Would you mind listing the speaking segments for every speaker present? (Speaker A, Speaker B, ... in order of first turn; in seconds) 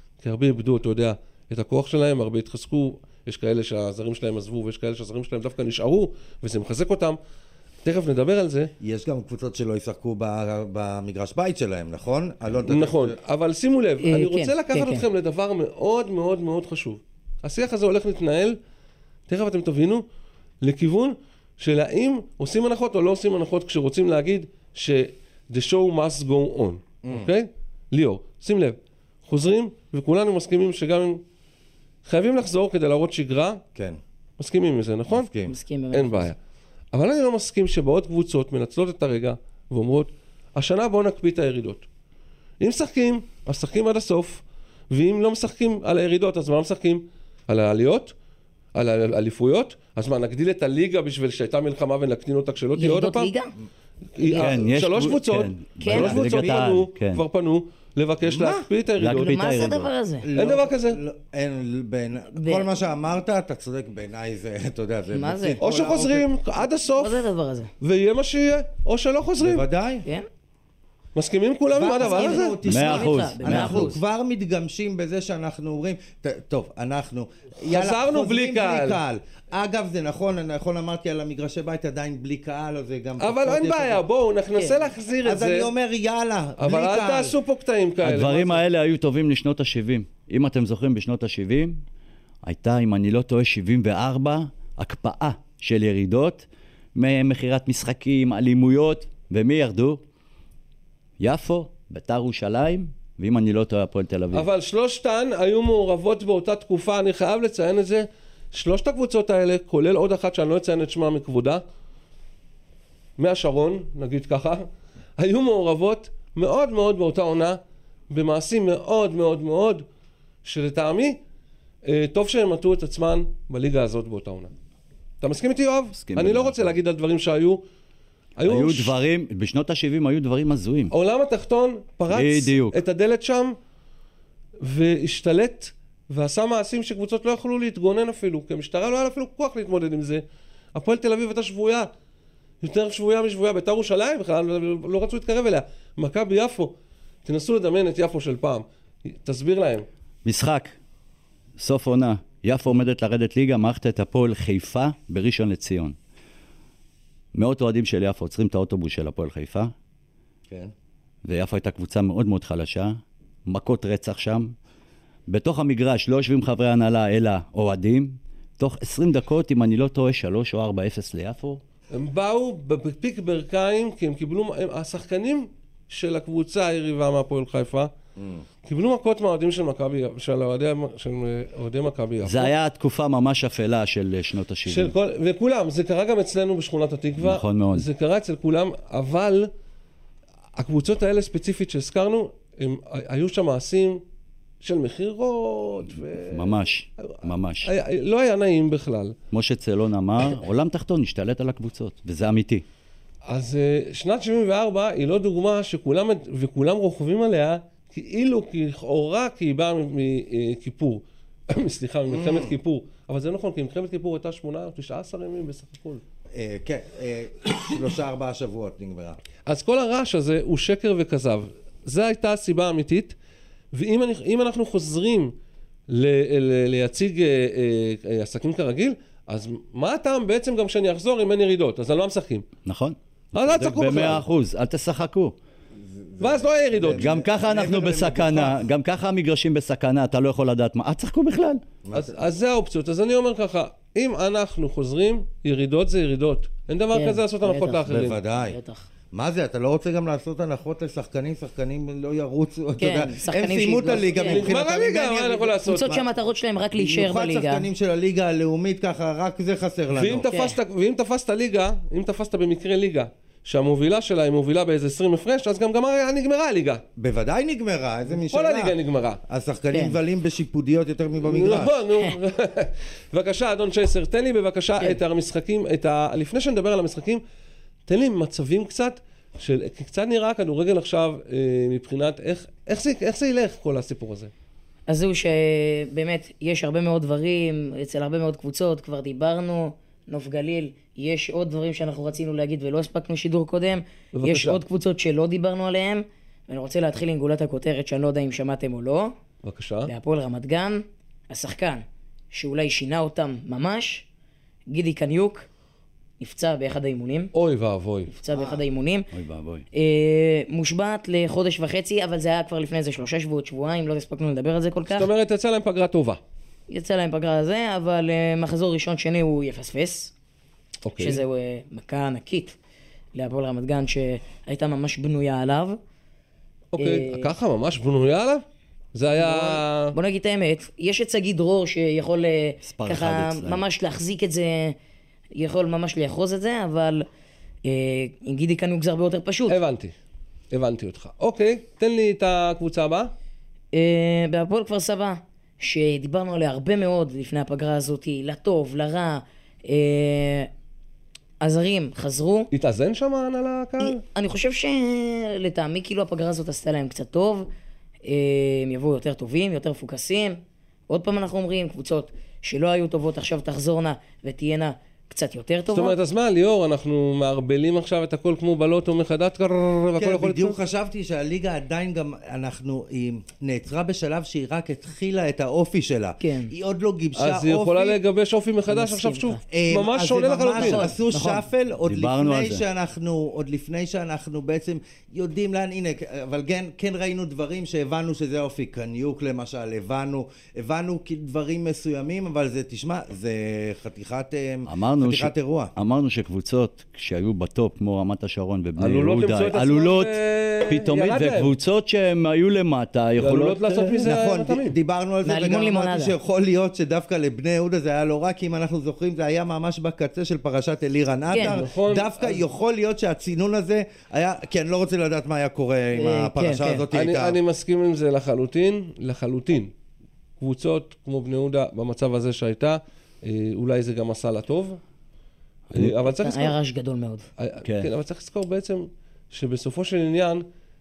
Speaker A: 0.2-7.2, 7.8-8.7, 12.6-18.6, 19.3-20.0, 20.6-31.2, 32.0-33.6, 34.4-35.3, 35.9-36.4, 36.9-41.9, 42.6-48.1, 48.7-53.3, 54.1-59.5, 60.3-61.0, 65.6-67.2, 67.8-69.7, 71.1-72.6, 77.7-79.0, 83.2-85.7, 86.6-88.6, 104.3-111.6, 113.2-114.7, 115.2-117.6, 118.1-119.8, 120.4-121.2, 121.8-124.5, 125.2-127.6, 128.4-128.9, 130.9-133.6, 134.6-141.9, 142.6-146.7, 147.2-149.8, 171.9-177.9, 178.6-182.5, 184.7-189.5, 190.6-194.0, 194.6-199.1, 203.2-216.0, 219.4-223.1, 223.7-225.3, 225.9-232.4, 233.3-234.2, 236.2-237.1, 241.9-248.2, 254.2-256.0, 259.9-266.8, 268.1-269.2, 271.2-277.2, 277.9-284.3, 294.1-294.6, 299.4-299.9, 307.3-308.1, 314.9-316.2, 320.8-321.2, 326.7-328.4, 328.9-329.9, 339.5-339.9, 340.5-343.1, 352.5-354.0, 365.7-370.6, 377.1-380.9, 398.8-401.5, 403.2-404.8, 411.3-412.4, 416.9-419.7, 420.4-424.8, 425.7-426.5, 427.4-430.4
Speaker B: 8.8-13.2, 27.0-27.3, 35.1-35.5, 58.2-58.6, 60.2-66.3, 69.4-70.0, 71.7-84.0, 85.2-87.3, 178.2-178.4, 212.1-212.5, 216.3-219.2, 235.8-238.6, 241.8-242.2, 247.9-248.6, 249.1-256.0, 256.7-260.3, 267.0-268.7, 269.3-271.8, 308.3-308.6, 370.0-378.0, 379.5-395.7, 404.0-417.4
Speaker C: 14.0-15.1, 35.5-36.3, 52.8-53.5, 54.2-54.5, 55.8-56.2, 59.1-60.3, 62.3-62.7, 65.1-65.6, 66.9-67.7, 72.0-74.0, 84.5-84.8, 246.9-248.9, 252.8-254.5, 255.6-257.7, 260.3-260.6, 269.7-270.0, 284.9-299.1, 299.9-304.1, 304.7-305.5, 306.2-307.3, 308.1-309.1, 309.7-315.1, 316.7-320.1, 321.0-322.6, 323.1-325.8, 326.8-327.3, 329.2-334.8, 335.3-337.1, 337.6-339.6, 343.7-350.5, 351.4-352.5, 353.8-357.5, 358.1-365.9, 376.2-376.5, 378.7-379.4, 380.5-381.4, 405.2-406.1, 411.3-411.6, 415.9-416.8, 426.1-427.3
Speaker D: 54.4-57.2, 59.0-59.9, 72.6-74.0, 88.0-91.8, 92.4-100.0, 101.2-104.5, 125.9-126.7, 128.4-130.9, 132.1-132.8, 150.2-150.7, 151.6-155.9, 157.3-159.7, 161.2-164.5, 165.3-171.6, 182.2-184.9, 187.2-187.9, 196.2-197.7, 199.3-202.6, 232.6-235.3, 236.9-241.6, 309.1-309.6, 332.6-333.6, 381.9-382.6, 394.6-404.1, 427.6-427.9